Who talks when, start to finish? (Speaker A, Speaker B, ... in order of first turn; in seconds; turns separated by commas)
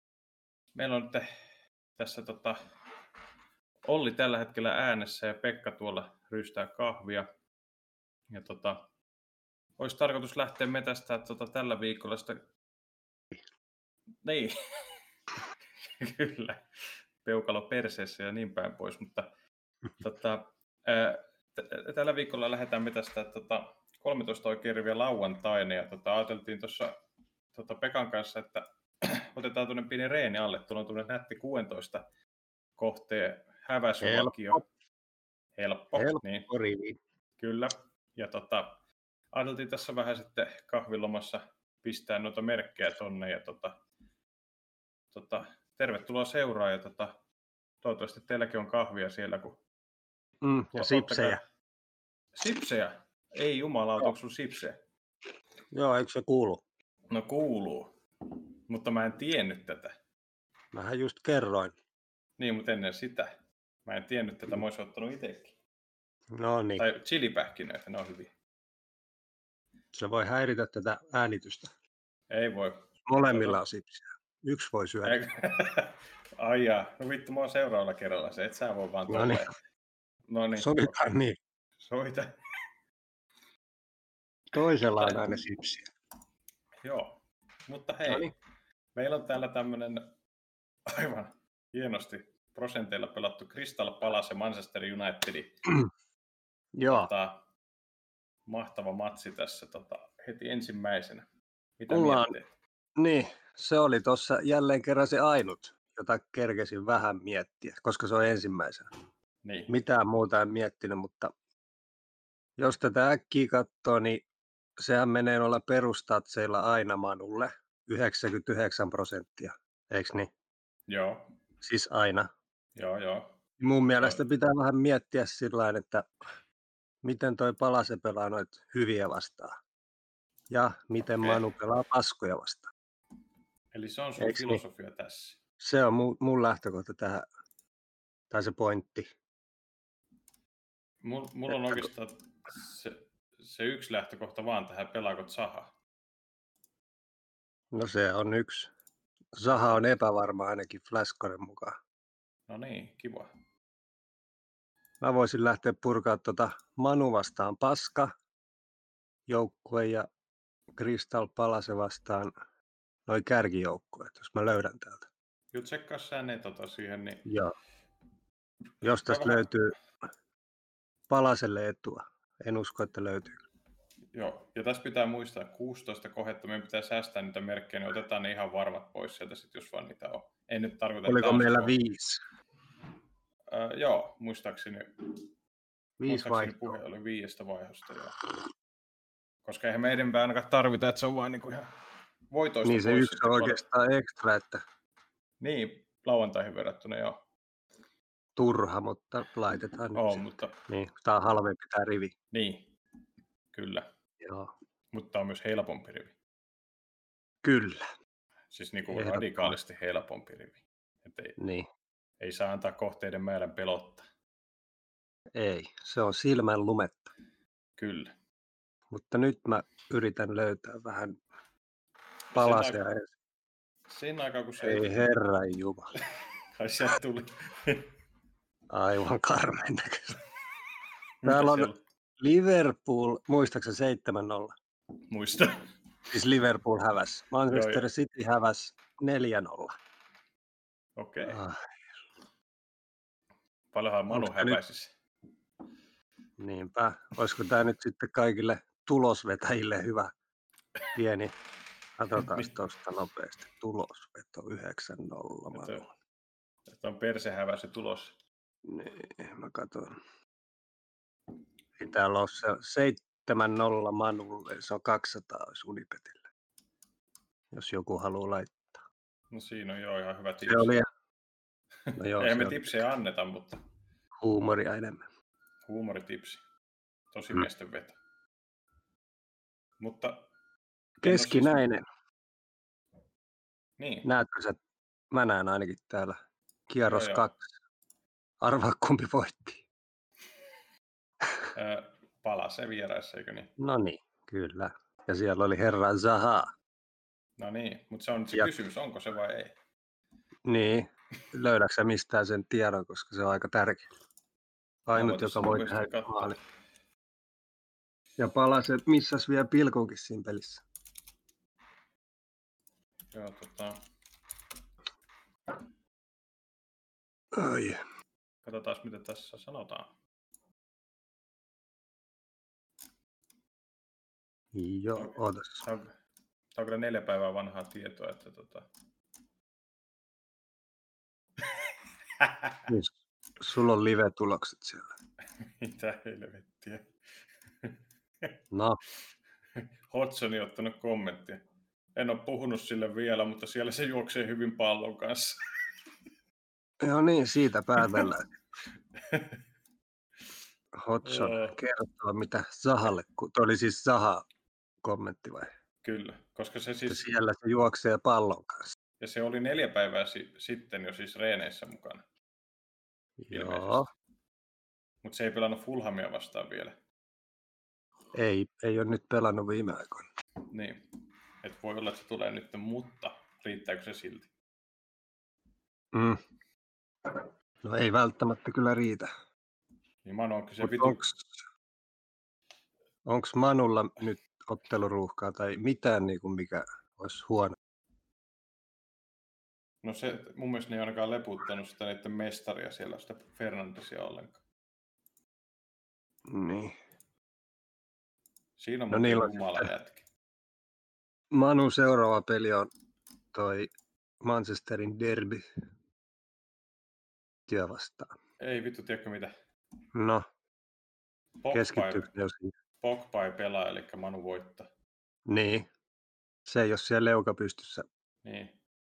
Speaker A: 0.8-1.3, Speaker A: 2.0-2.6, Speaker A: 3.9-7.3, Speaker A: 8.3-8.9, Speaker A: 9.8-12.4, Speaker A: 14.2-15.0, Speaker A: 16.0-16.6, Speaker A: 17.2-19.3, Speaker A: 20.0-27.0, Speaker A: 27.5-32.0, Speaker A: 32.8-34.6, Speaker B: 34.0-34.6, Speaker A: 35.6-36.5, Speaker B: 36.0-37.0, Speaker A: 37.4-43.8, Speaker A: 45.1-47.2, Speaker A: 47.8-49.6, Speaker B: 50.4-51.4, Speaker A: 50.8-51.4, Speaker A: 52.4-54.8, Speaker B: 55.7-56.6, Speaker A: 57.1-57.9, Speaker A: 58.7-60.0, Speaker B: 60.7-61.7, Speaker A: 62.4-63.3, Speaker A: 63.9-65.6, Speaker B: 66.3-66.9, Speaker A: 66.8-68.3, Speaker B: 69.9-71.7, Speaker A: 72.3-73.6, Speaker B: 73.1-75.2, Speaker A: 75.0-79.5, Speaker B: 79.1-79.5, Speaker A: 80.3-80.9, Speaker B: 80.6-81.4, Speaker A: 81.8-82.3, Speaker B: 84.5-85.9, Speaker A: 85.0-85.2, Speaker A: 86.8-88.3, Speaker A: 89.0-90.1, Speaker A: 90.9-95.7, Speaker B: 96.8-97.1, Speaker A: 96.9-97.5, Speaker A: 98.5-101.3, Speaker A: 101.8-102.5, Speaker B: 101.9-102.4, Speaker B: 103.0-108.9, Speaker A: 109.4-109.8, Speaker B: 109.7-111.3, Speaker B: 112.6-114.2, Speaker B: 114.8-120.3, Speaker A: 120.9-121.3, Speaker B: 121.6-122.3, Speaker A: 122.8-123.4, Speaker B: 123.6-126.1, Speaker B: 127.0-129.6, Speaker B: 130.5-132.7, Speaker A: 131.2-131.5, Speaker A: 133.7-135.4, Speaker B: 134.2-134.6, Speaker B: 135.6-137.3, Speaker B: 138.3-139.1, Speaker A: 141.0-145.7, Speaker B: 141.5-141.9, Speaker B: 147.7-148.7, Speaker B: 149.3-151.8, Speaker A: 152.5-153.3, Speaker B: 155.0-158.1, Speaker B: 159.3-160.1, Speaker B: 160.8-162.3, Speaker B: 163.1-165.1, Speaker A: 165.5-167.3, Speaker B: 167.3-167.5, Speaker B: 168.8-169.7, Speaker A: 168.9-169.6, Speaker B: 171.1-173.4, Speaker A: 174.1-181.8, Speaker B: 181.1-182.2, Speaker A: 183.5-184.9, Speaker B: 186.0-186.8, Speaker A: 186.1-188.2, Speaker A: 189.4-191.7, Speaker A: 192.3-193.6, Speaker B: 192.6-194.6, Speaker A: 195.4-197.2, Speaker B: 198.4-202.1, Speaker A: 199.9-200.6, Speaker A: 202.3-202.7, Speaker A: 203.5-203.9, Speaker B: 204.2-204.5, Speaker A: 204.9-206.2, Speaker B: 207.4-207.8, Speaker A: 208.5-211.4, Speaker B: 208.9-209.6, Speaker B: 211.4-211.7, Speaker A: 212.2-214.0, Speaker B: 215.3-217.1, Speaker A: 217.8-218.1, Speaker B: 218.9-221.2, Speaker A: 222.3-222.8, Speaker B: 222.3-223.1, Speaker A: 223.9-225.1, Speaker B: 224.6-225.9, Speaker A: 226.6-227.9, Speaker B: 228.7-230.2, Speaker A: 231.2-231.8, Speaker B: 231.2-234.5, Speaker A: 235.1-235.6, Speaker B: 236.1-239.7, Speaker A: 237.5-237.9, Speaker A: 241.0-241.4, Speaker B: 241.3-241.6, Speaker A: 243.7-244.9, Speaker B: 244.1-244.6, Speaker B: 246.4-250.1, Speaker B: 250.9-251.3, Speaker B: 252.0-255.9, Speaker A: 252.2-252.5, Speaker A: 255.5-255.9, Speaker A: 256.7-258.2, Speaker B: 258.6-260.0, Speaker B: 261.8-266.2, Speaker B: 267.5-268.8, Speaker A: 269.3-270.8, Speaker B: 270.5-270.9, Speaker A: 271.9-273.6, Speaker B: 272.0-272.7, Speaker B: 274.2-275.0, Speaker A: 275.7-276.4, Speaker A: 277.1-278.0, Speaker A: 279.8-280.3, Speaker A: 281.0-281.7, Speaker B: 281.0-281.8, Speaker A: 283.8-284.1, Speaker B: 284.1-284.6, Speaker B: 285.1-287.4, Speaker A: 286.8-287.3, Speaker B: 288.4-289.6, Speaker A: 291.5-293.5, Speaker B: 293.6-296.5, Speaker A: 297.4-299.6, Speaker B: 300.5-303.8, Speaker B: 304.9-306.4, Speaker A: 304.9-306.4, Speaker B: 308.2-310.6, Speaker A: 313.1-313.8, Speaker B: 317.3-317.8, Speaker A: 318.4-319.9, Speaker B: 324.5-325.6, Speaker A: 324.9-325.9, Speaker A: 326.5-328.7, Speaker A: 331.4-332.7, Speaker B: 332.7-334.9, Speaker A: 335.6-336.9, Speaker A: 337.6-338.3, Speaker B: 338.5-338.8, Speaker A: 339.6-341.4, Speaker A: 342.0-345.4, Speaker B: 346.8-348.3, Speaker A: 349.0-349.4, Speaker B: 350.8-354.2, Speaker A: 351.0-351.6, Speaker B: 354.8-355.5, Speaker A: 355.8-357.1, Speaker B: 356.9-358.7, Speaker A: 359.0-362.0, Speaker B: 363.2-363.9, Speaker A: 363.3-363.9, Speaker A: 365.0-366.8, Speaker B: 368.1-370.1, Speaker A: 370.5-370.8, Speaker A: 371.4-374.3, Speaker B: 375.9-376.2, Speaker B: 377.1-379.1, Speaker A: 380.1-381.0, Speaker B: 380.6-381.4, Speaker B: 383.1-387.6, Speaker A: 389.8-394.4, Speaker B: 396.3-396.8, Speaker A: 398.6-400.1, Speaker B: 398.9-399.7, Speaker B: 401.3-402.7, Speaker B: 403.3-403.7, Speaker B: 404.2-405.5, Speaker B: 407.5-408.1, Speaker A: 408.4-409.3, Speaker B: 409.9-410.2, Speaker A: 411.4-412.1, Speaker B: 411.5-412.5, Speaker A: 412.8-414.7, Speaker B: 415.3-415.7, Speaker B: 416.5-417.9, Speaker A: 418.2-418.6